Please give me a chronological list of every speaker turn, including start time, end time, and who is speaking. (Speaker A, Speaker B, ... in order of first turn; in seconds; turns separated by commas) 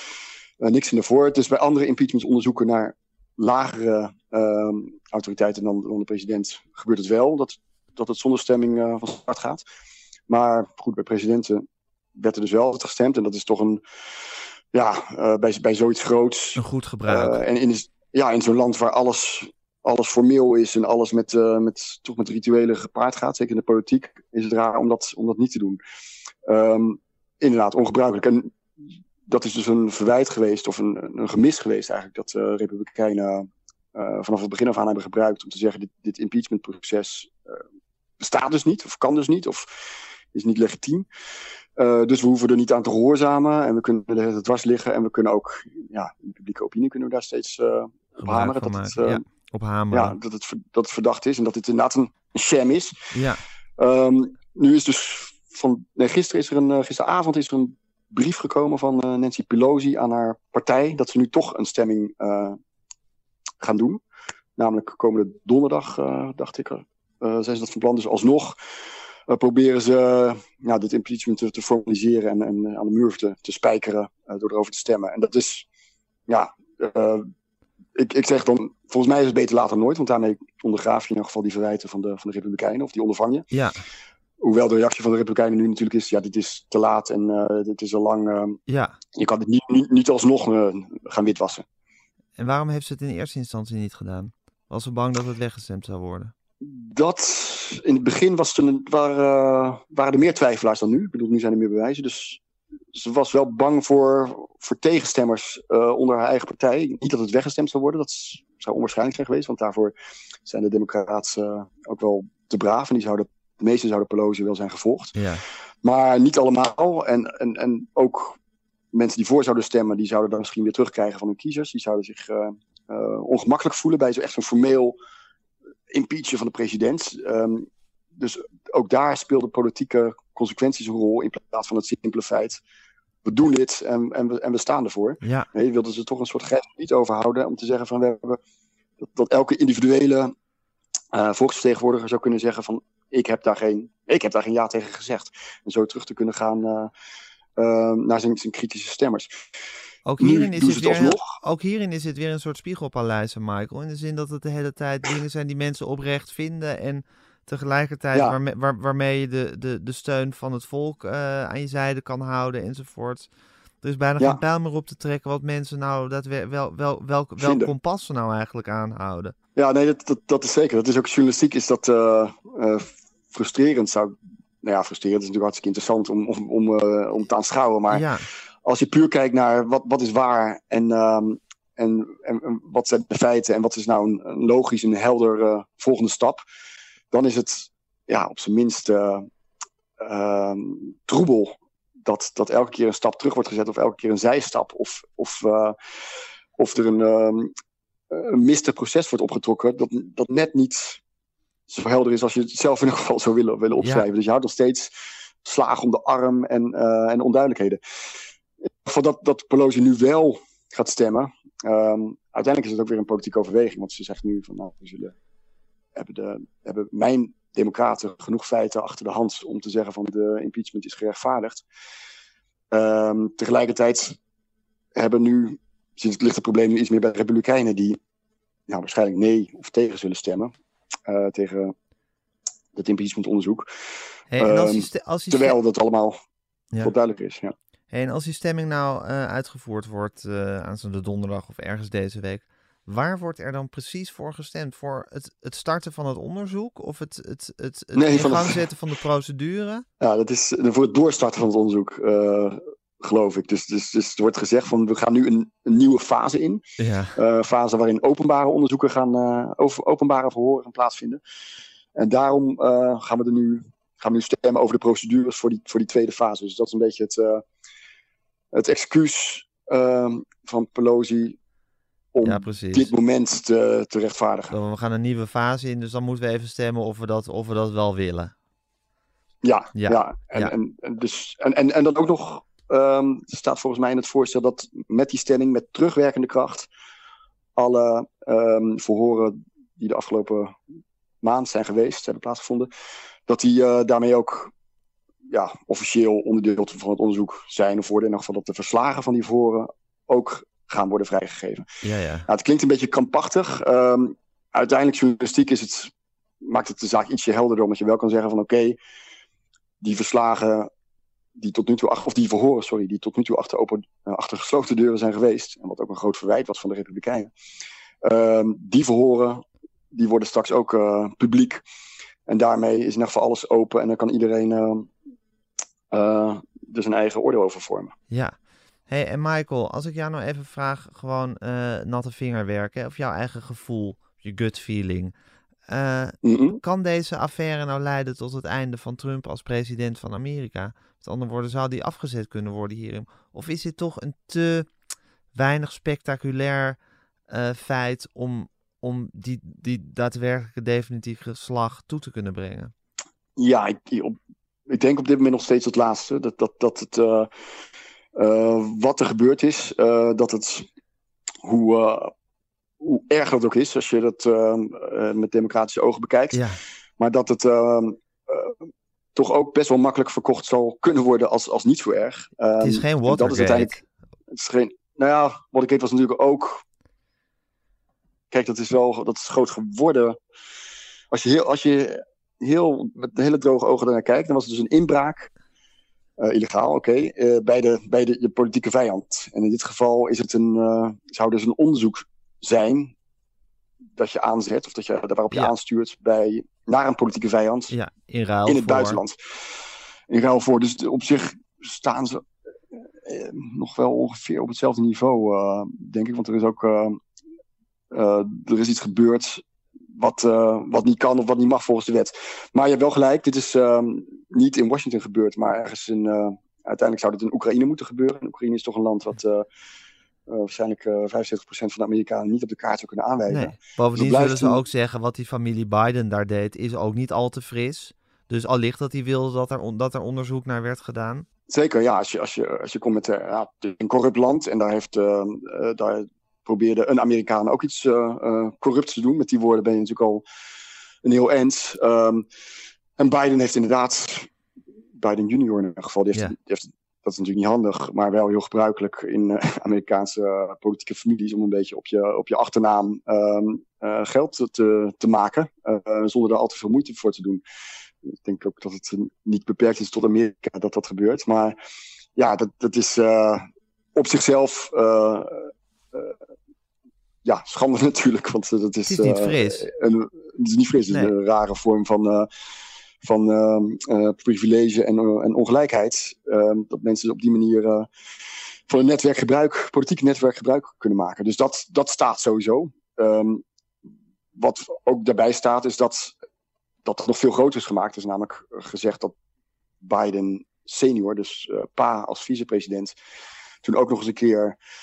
Speaker A: 0.6-9.6, Speaker A: 10.3-11.6, Speaker A: 12.2-13.8, Speaker A: 14.7-25.8, Speaker B: 16.6-17.4, Speaker A: 26.4-28.6, Speaker A: 29.2-37.6, Speaker A: 38.2-41.1, Speaker A: 41.8-49.2, Speaker B: 48.2-50.1, Speaker A: 49.9-53.0, Speaker B: 53.1-53.4, Speaker A: 53.8-62.6, Speaker A: 63.6-64.0, Speaker A: 64.6-68.5, Speaker A: 69.3-75.7, Speaker A: 76.3-77.3, Speaker A: 78.0-83.5, Speaker B: 83.5-83.8, Speaker A: 84.4-88.6, Speaker B: 88.7-89.0, Speaker A: 89.1-91.6, Speaker B: 92.4-96.3, Speaker A: 96.6-102.4, Speaker A: 102.9-109.9, Speaker A: 110.4-115.2, Speaker B: 115.2-115.4, Speaker A: 115.8-118.4, Speaker A: 118.9-125.0, Speaker A: 125.9-132.6, Speaker A: 133.2-138.4, Speaker B: 135.2-135.5, Speaker A: 139.0-140.3, Speaker A: 141.1-146.9, Speaker A: 147.6-149.3, Speaker B: 150.1-163.3, Speaker A: 150.2-151.3, Speaker B: 163.8-169.3, Speaker A: 167.4-167.7, Speaker A: 169.5-178.1, Speaker B: 177.9-178.2, Speaker A: 178.7-186.4, Speaker A: 187.1-189.3, Speaker A: 190.0-195.8, Speaker A: 196.6-197.5, Speaker A: 198.1-201.0, Speaker A: 201.7-204.9, Speaker A: 205.4-207.8, Speaker A: 208.6-215.1, Speaker A: 215.9-221.6, Speaker A: 222.7-224.2, Speaker A: 224.9-228.0, Speaker A: 228.7-230.5, Speaker A: 231.1-231.7, Speaker A: 232.7-233.7, Speaker B: 234.3-235.6, Speaker A: 234.4-236.2, Speaker A: 236.8-237.5, Speaker B: 237.9-249.8, Speaker A: 247.9-248.7, Speaker A: 250.0-256.6, Speaker B: 256.8-257.2, Speaker A: 257.1-261.2, Speaker A: 261.9-267.4, Speaker A: 268.5-271.4, Speaker A: 272.1-274.6, Speaker B: 272.2-272.9, Speaker B: 274.5-278.3, Speaker A: 279.4-286.7, Speaker B: 279.7-280.5, Speaker A: 287.6-290.6, Speaker A: 291.2-292.7, Speaker A: 293.3-294.5, Speaker A: 295.3-301.6, Speaker B: 301.8-302.3, Speaker A: 302.3-308.8, Speaker A: 309.8-310.7, Speaker A: 311.4-317.3, Speaker A: 318.0-321.6, Speaker A: 322.2-324.9, Speaker A: 325.9-327.9, Speaker B: 328.1-328.4, Speaker B: 328.9-335.1, Speaker B: 335.7-344.7, Speaker A: 336.2-336.6, Speaker B: 345.3-346.8, Speaker B: 347.3-352.7, Speaker A: 353.4-354.1, Speaker A: 354.7-357.3, Speaker A: 358.1-360.6, Speaker A: 361.4-362.1, Speaker A: 362.8-366.4, Speaker B: 366.3-366.6, Speaker A: 367.0-376.6, Speaker B: 372.6-373.8, Speaker A: 378.3-380.2, Speaker A: 381.1-385.3, Speaker A: 386.2-392.9, Speaker A: 393.9-397.7, Speaker B: 397.7-399.0, Speaker A: 398.4-399.4, Speaker A: 400.1-402.2, Speaker A: 403.0-407.0, Speaker A: 407.9-409.4, Speaker A: 409.9-419.4, Speaker A: 420.3-424.6, Speaker B: 423.3-431.2, Speaker A: 431.5-440.2, Speaker A: 441.0-442.2, Speaker A: 443.0-444.3, Speaker A: 444.9-457.4, Speaker A: 458.1-461.6, Speaker A: 462.1-463.4, Speaker A: 463.9-466.1, Speaker A: 467.2-472.3, Speaker B: 468.9-469.7, Speaker A: 473.0-477.9, Speaker A: 478.7-483.4, Speaker A: 484.4-486.1, Speaker A: 486.8-489.1, Speaker A: 489.8-492.9, Speaker A: 493.6-494.6